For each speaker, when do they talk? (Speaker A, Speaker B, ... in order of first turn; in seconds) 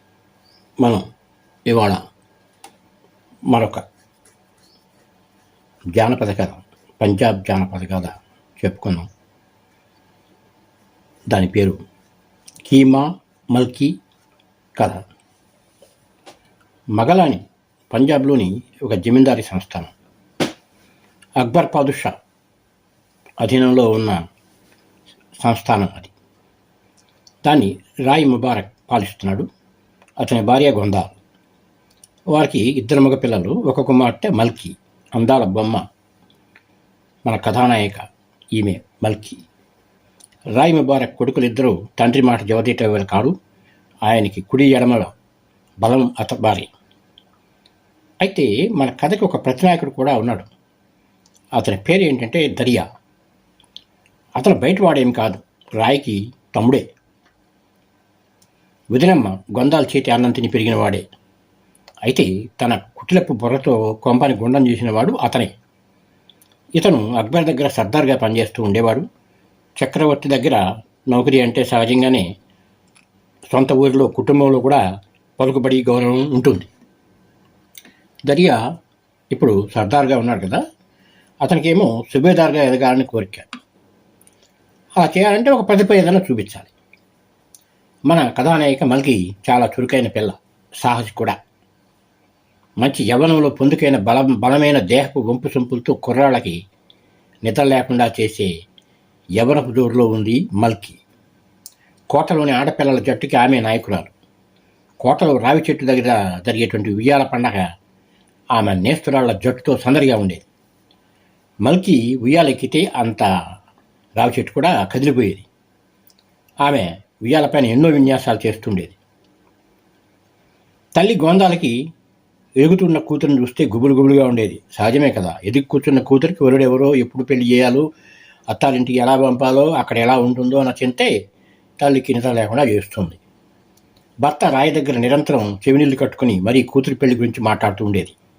Speaker A: 1.7-2.0, 3.5-3.8, 6.0-9.1, 11.3-11.8, 12.6-13.9, 14.8-15.0, 17.0-19.9, 21.4-22.1, 23.4-24.2, 25.4-26.1, 27.4-29.5, 30.2-31.2, 32.3-35.8, 37.3-38.0, 38.6-39.4, 40.6-43.3, 44.1-45.1, 45.8-46.7, 48.2-50.5, 51.6-52.9, 54.4-56.8, 58.9-61.0, 62.1-65.5, 66.8-69.0, 69.8-72.3, 73.5-74.8, 75.4-76.7, 78.3-78.6, 79.3-80.6, 81.4-83.5, 85.0-86.7, 88.1-91.4, 92.8-96.6, 97.5-98.5, 99.4-101.0, 102.1-104.1, 105.0-107.7, 108.5-110.5, 111.7-113.3, 114.2-115.5, 116.6-119.0, 121.0-121.7, 122.6-127.8, 128.5-131.1, 131.8-133.2, 134.2-138.2